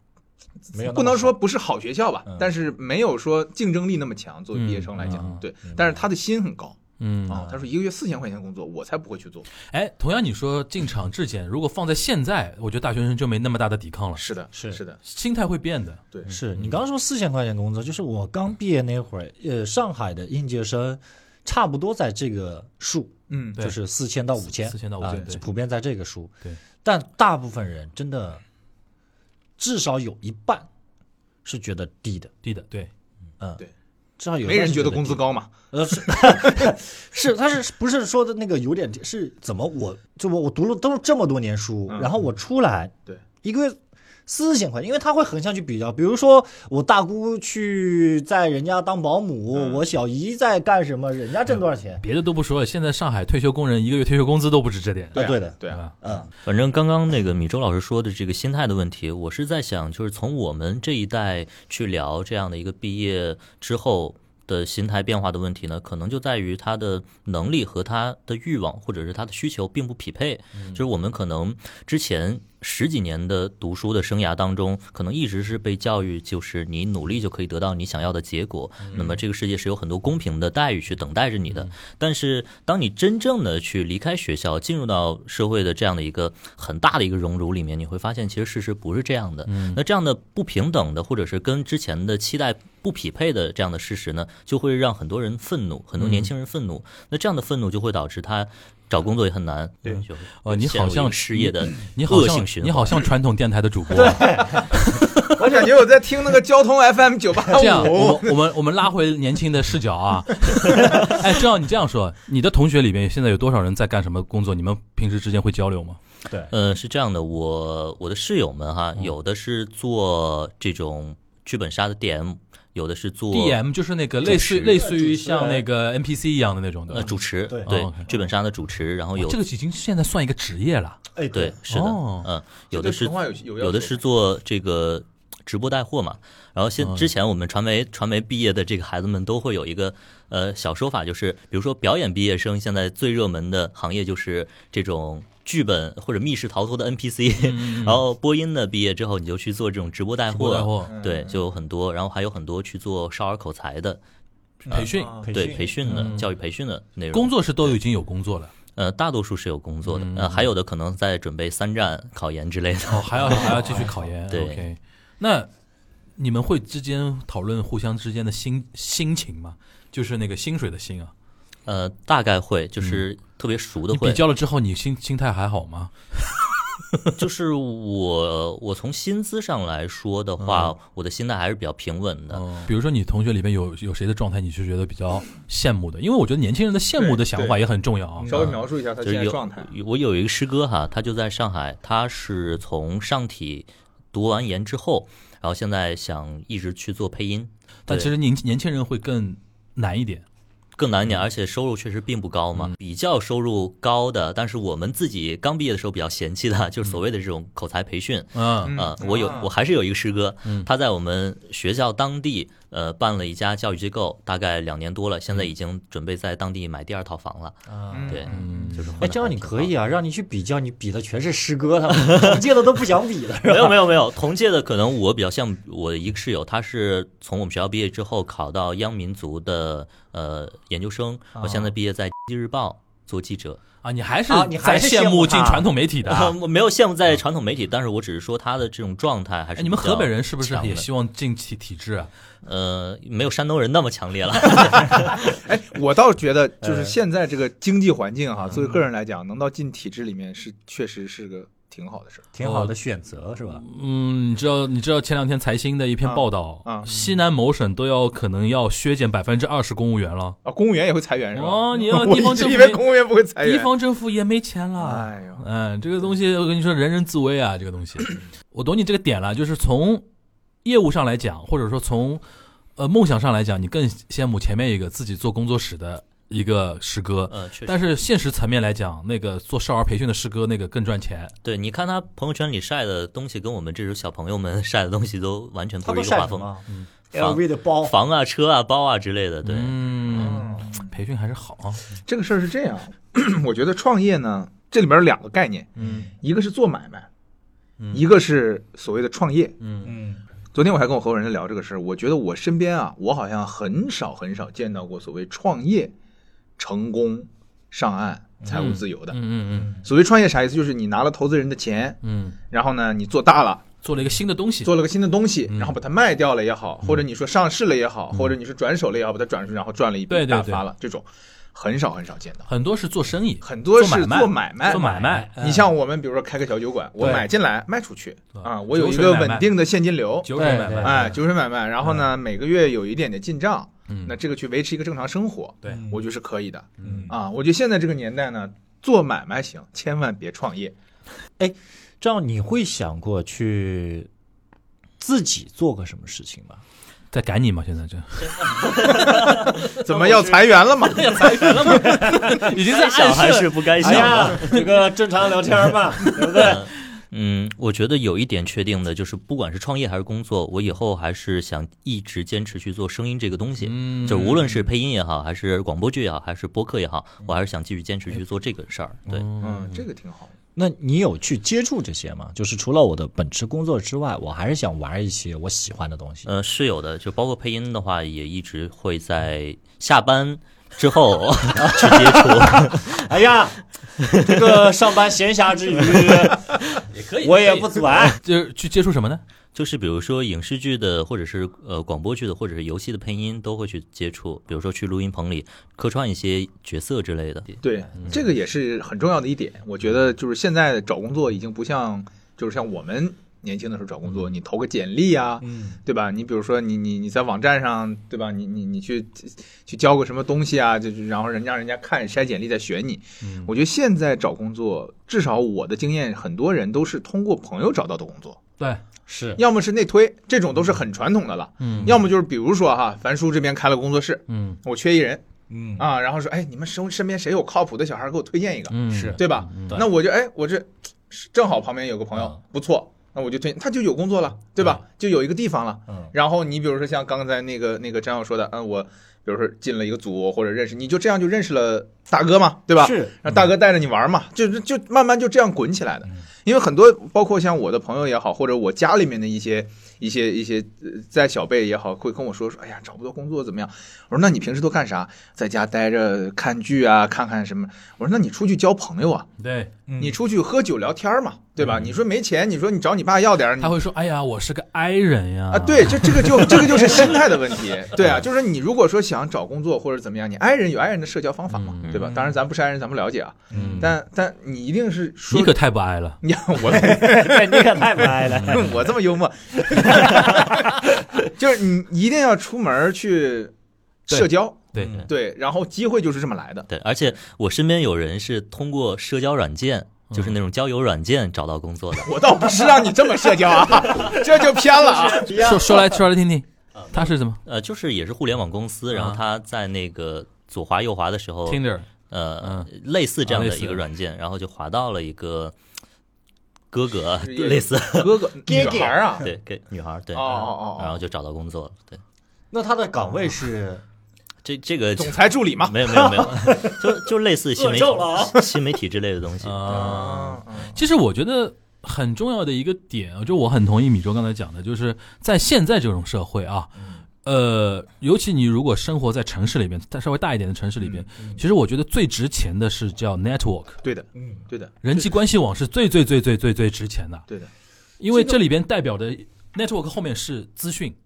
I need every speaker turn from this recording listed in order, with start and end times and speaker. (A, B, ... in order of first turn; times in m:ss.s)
0:00.6-0:09.5 A
0:00.7-0:01.4 B
0:04.5-0:05.4 C
0:05.0-0:06.0 B
0:07.0-0:07.4 C
0:07.3-0:07.6 B
0:09.7-0:14.2 C
0:14.2-0:15.0 A
0:14.5-0:14.8 B
0:15.0-0:16.8 C
0:16.3-0:28.4 B
0:23.3-0:23.6 A
0:24.5-0:25.4 C
0:29.6-0:30.7 B
0:31.4-0:32.3 B
0:32.4-0:32.9 C
0:34.2-0:52.0 B
0:34.4-0:35.5 A
0:36.1-0:36.7 A
0:49.5-0:49.8 A
0:52.0-0:55.9 C
0:55.1-0:55.8 A
0:55.2-0:56.3 B
0:56.4-1:43.1 D
1:10.6-1:10.8 C
1:18.8-1:19.2 C
1:29.5-1:29.8 C
1:36.0-1:36.3 C
1:40.4-1:44.3 C
1:43.9-1:45.8 B
1:45.4-1:48.4 A
1:47.5-1:56.0 C
1:47.6-1:47.9 B
1:56.5-2:03.6 D
2:03.3-2:07.1 C
2:04.2-2:04.8 D
2:04.3-2:05.6 B
2:06.9-2:09.4 D
2:07.0-2:07.8 B
2:07.6-2:08.1 C
2:09.2-2:11.0 C
2:11.2-2:11.6 B
2:11.3-2:34.0 D
2:11.7-2:12.3 C
2:12.7-2:14.1 A
2:16.8-2:17.1 C
2:27.4-2:28.0 C
2:30.3-2:31.0 C
2:30.9-2:31.4 A
2:34.6-2:35.2 C
2:34.7-2:36.1 B
2:34.7-2:37.8 D
2:34.9-2:35.4 A
2:35.8-2:36.3 C
2:37.1-2:38.5 C
2:38.8-2:43.8 D
2:39.9-2:40.5 C
2:42.9-2:45.5 C
2:43.3-2:44.0 B
2:44.3-2:44.6 D
2:46.2-2:51.1 C
2:51.7-2:54.2 D
2:53.9-2:56.3 C
2:57.2-3:02.5 D
3:00.4-3:00.8 C
3:02.3-3:08.5 C
3:07.0-3:07.6 A
3:08.2-3:09.7 A
3:08.3-3:18.1 D
3:17.9-3:20.2 C
3:20.8-3:39.7 D
3:28.4-3:28.8 C
3:28.6-3:29.5 A
3:37.7-3:38.3 B
3:37.9-3:38.4 A
3:38.3-3:38.9 C
3:39.0-3:44.0 B
3:41.9-3:42.4 D
3:43.4-3:53.6 D
3:51.4-3:51.7 B
3:53.8-3:56.4 C
3:54.3-3:55.7 B
3:56.0-4:00.9 D
3:59.6-4:02.1 C
4:02.4-4:05.2 D
4:05.2-4:12.3 A
4:06.6-4:07.0 B
4:08.5-4:08.8 B
4:12.3-4:13.6 B
4:12.4-4:12.7 C
4:13.5-4:20.4 C
4:16.0-4:17.0 A
4:20.4-4:23.7 A
4:21.3-4:22.8 C
4:23.4-4:30.0 C
4:24.8-4:25.4 A
4:30.6-4:32.2 C
4:32.8-4:41.3 C
4:37.3-4:38.0 D
4:41.4-4:46.5 D
4:45.8-4:48.0 B
4:47.1-4:49.8 D
4:49.4-4:51.8 C
4:50.1-4:50.7 B
4:50.2-4:50.7 A
4:52.0-4:57.1 A
4:55.8-4:56.1 C
4:57.8-4:58.0 C
4:57.9-4:59.6 A
4:59.6-4:59.9 C
4:59.8-5:00.2 B
5:00.5-5:05.9 A
5:06.6-5:09.2 A
5:08.5-5:09.8 C
5:09.8-5:12.0 A
5:12.0-5:12.4 C
5:12.5-5:13.7 A
5:13.8-5:14.7 C
5:14.6-5:22.5 A
5:15.5-5:15.8 C
5:20.1-5:20.7 C
5:22.5-5:25.3 C
5:23.4-5:40.8 A
5:24.7-5:25.7 B
5:27.0-5:27.3 B
5:28.4-5:29.5 C
5:30.2-5:31.1 C
5:30.3-5:31.2 B
5:33.9-5:34.2 C
5:35.7-5:36.0 B
5:36.8-5:37.1 C
5:36.8-5:37.1 B
5:41.4-5:44.1 B
5:45.0-5:46.6 B
5:47.1-5:49.1 C
5:48.4-5:49.2 D
5:48.8-5:52.1 A
5:49.9-5:50.5 B
5:50.8-5:54.4 C
5:51.7-5:56.7 B
5:51.8-5:54.7 D
5:56.1-6:09.3 D
6:03.6-6:04.7 C
6:09.1-6:09.8 C
6:09.4-6:10.3 A
6:10.6-6:16.3 B
6:16.3-6:23.0 D
6:21.6-6:26.6 B
6:24.0-6:24.5 D
6:26.8-6:29.2 C
6:27.2-6:28.2 B
6:29.5-6:37.6 D
6:37.6-6:58.4 A
6:45.4-6:45.8 B
6:53.2-6:53.5 C
6:59.1-6:59.4 B
6:59.4-7:05.2 A
7:01.6-7:02.0 C
7:01.8-7:02.0 B
7:04.3-7:04.6 C
7:05.5-7:05.9 B
7:05.8-7:39.3 A
7:08.7-7:09.8 C
7:08.9-7:09.9 B
7:22.8-7:23.3 B
7:39.4-7:39.7 C
7:39.9-7:40.2 B
7:40.0-7:43.8 A
7:43.6-7:47.3 C
7:45.5-7:55.6 A
7:51.5-7:52.1 C
7:52.0-7:52.3 B
7:53.5-7:53.9 B
7:53.5-7:54.0 C
7:55.3-7:56.2 C
7:56.2-8:03.5 A
7:56.6-7:58.9 B
7:58.3-7:58.7 C
7:59.7-8:00.8 B
8:04.1-8:06.7 A
8:04.1-8:05.0 C
8:04.8-8:05.1 B
8:06.7-8:12.1 D
8:10.1-8:10.4 C
8:12.0-8:15.5 A
8:14.8-8:16.0 B
8:15.3-8:17.4 C
8:16.8-8:25.6 D
8:18.9-8:19.2 C
8:21.5-8:21.9 C
8:22.4-8:22.7 C
8:23.3-8:23.8 C
8:26.7-8:32.0 D
8:27.2-8:29.3 A
8:28.4-8:29.3 B
8:30.1-8:31.0 A
8:32.5-8:33.8 B
8:34.4-8:40.0 D
8:35.0-8:36.1 A
8:35.9-8:38.4 B
8:39.4-8:53.8 C
8:39.7-8:40.8 A
8:50.8-8:51.1 A
8:53.8-8:55.1 A
8:54.2-8:54.5 B
8:54.8-8:57.3 C
8:58.0-9:01.0 C